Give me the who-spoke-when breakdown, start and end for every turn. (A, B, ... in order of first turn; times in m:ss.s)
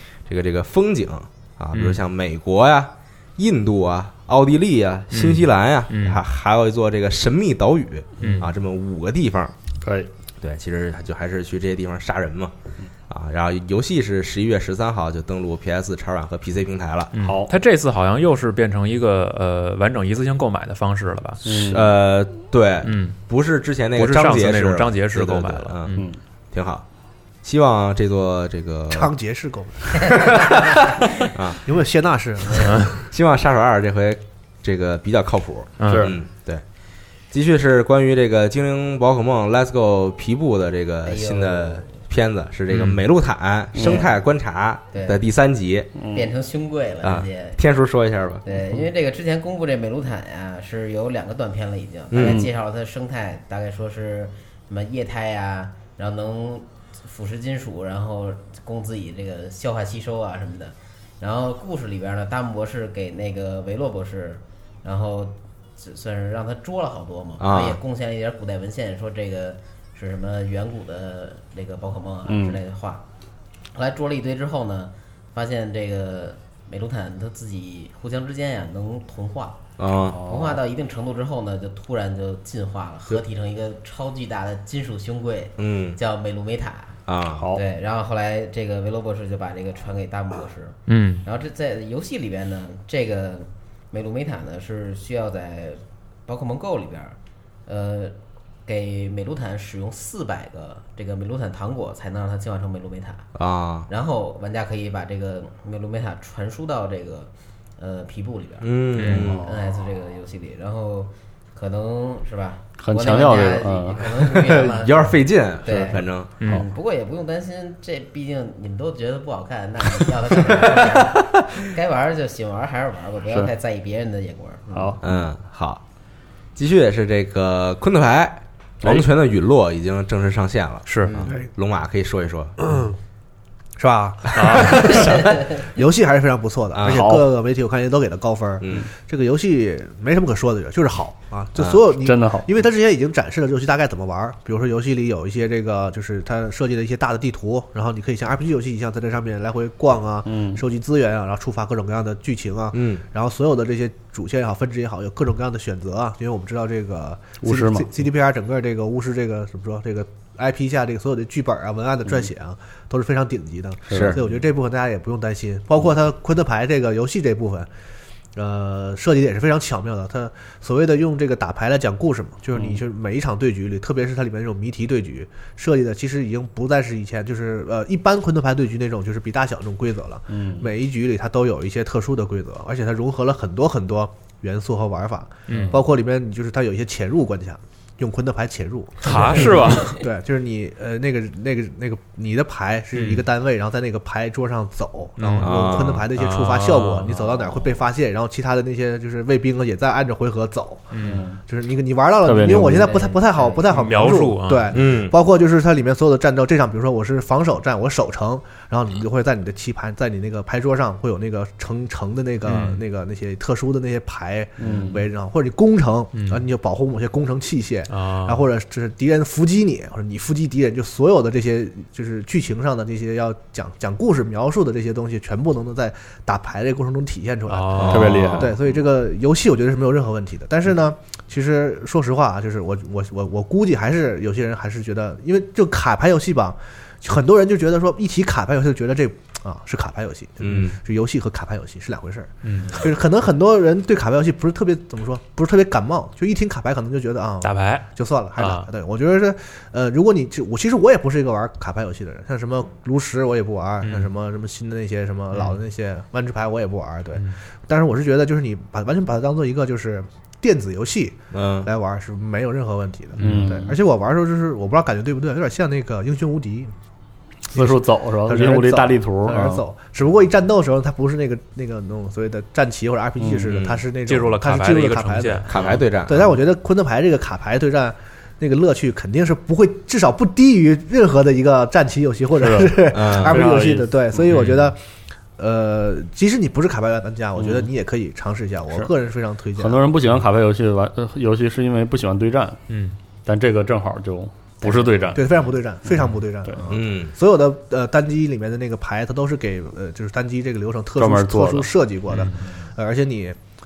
0:00.3-0:09.5 A
0:01.7-0:02.0 B
0:05.1-0:06.2 B
0:08.2-0:08.5 B
0:08.2-0:08.5 C
0:09.8-0:10.1 C
0:10.4-0:12.5 A
0:13.1-0:17.1 A
0:17.1-0:21.4 B
0:17.2-0:17.5 C
0:21.4-0:21.9 C
0:21.7-0:25.9 A
0:22.8-0:23.2 B
0:23.9-0:26.1 B
0:25.9-0:26.2 C
0:26.5-0:26.8 A
0:27.4-0:29.1 A
0:28.9-0:30.6 D
0:31.3-0:31.6 A
0:31.6-0:33.0 D
0:32.6-0:32.9 B
0:33.1-0:36.6 A
0:35.8-0:36.1 B
0:35.9-0:36.1 C
0:37.3-0:45.9 A
0:41.0-0:41.8 E
0:42.7-0:43.0 B
0:43.7-0:44.0 C
0:43.8-0:44.1 E
0:44.9-0:45.2 E
0:46.0-0:46.3 C
0:46.1-0:47.6 E
0:47.0-0:48.4 A
0:48.4-1:13.0 E
0:52.1-0:52.4 A
0:52.2-0:52.5 C
1:07.4-1:07.8 A
1:12.2-1:12.6 C
1:13.7-1:19.6 E
1:19.8-1:20.2 A
1:20.0-1:20.6 C
1:20.2-1:27.0 E
1:25.6-1:26.0 A
1:27.1-1:27.4 A
1:27.3-1:27.6 C
1:27.5-1:43.3 E
1:30.9-1:31.2 B
1:43.4-1:43.9 A
1:43.9-2:05.0 E
1:48.6-1:49.4 A
1:49.0-1:49.3 B
1:49.1-1:49.7 C
1:52.8-1:54.2 C
1:54.5-1:56.3 A
2:03.2-2:03.5 C
2:04.7-2:05.3 C
2:05.0-2:05.8 A
2:06.6-2:12.5 A
2:10.8-2:11.2 B
2:11.0-2:11.3 E
2:12.6-2:13.0 D
2:13.8-2:47.7 D
2:14.4-2:15.1 B
2:16.7-2:17.0 A
2:16.8-2:17.3 C
2:21.9-2:22.5 C
2:30.2-2:30.6 C
2:32.7-2:33.0 A
2:37.4-2:38.0 C
2:43.9-2:44.3 C
2:43.9-2:44.2 A
2:48.4-3:20.9 D
2:52.5-2:52.8 C
3:00.3-3:00.7 C
3:05.5-3:05.8 B
3:05.5-3:05.8 C
3:09.0-3:10.0 B
3:09.3-3:09.6 C
3:12.9-3:13.2 B
3:15.2-3:17.4 B
3:15.4-3:16.0 A
3:20.9-3:21.3 B
3:21.0-3:21.4 C
3:21.5-4:26.7 D
3:22.2-3:23.0 C
3:22.6-3:23.8 E
3:23.7-3:24.8 B
3:24.7-3:25.1 A
3:32.4-3:32.8 B
3:34.6-3:35.0 C
3:36.1-3:36.4 B
3:37.9-3:38.4 B
3:47.5-3:48.4 B
3:47.7-3:48.6 A
3:47.9-3:48.6 C
4:00.4-4:00.8 A
4:02.4-4:02.8 B
4:07.4-4:08.7 B
4:13.8-4:14.1 B
4:21.3-4:21.7 A
4:23.2-4:23.8 C
4:27.5-4:29.6 C
4:27.5-4:35.5 D
4:33.2-4:33.6 C
4:33.5-4:33.8 A
4:34.0-4:35.5 B
4:35.5-4:36.3 A
4:35.5-4:35.8 C
4:36.1-4:44.8 D
4:42.3-4:44.3 C
4:42.9-4:43.5 A
4:44.3-4:44.7 B
4:45.4-4:49.8 D
4:47.4-4:47.7 C
4:49.6-4:52.6 C
4:52.7-4:53.0 B
4:53.2-4:56.6 C
4:54.6-5:03.4 D
4:56.7-4:57.1 A
5:01.0-5:01.7 C
5:02.1-5:02.4 B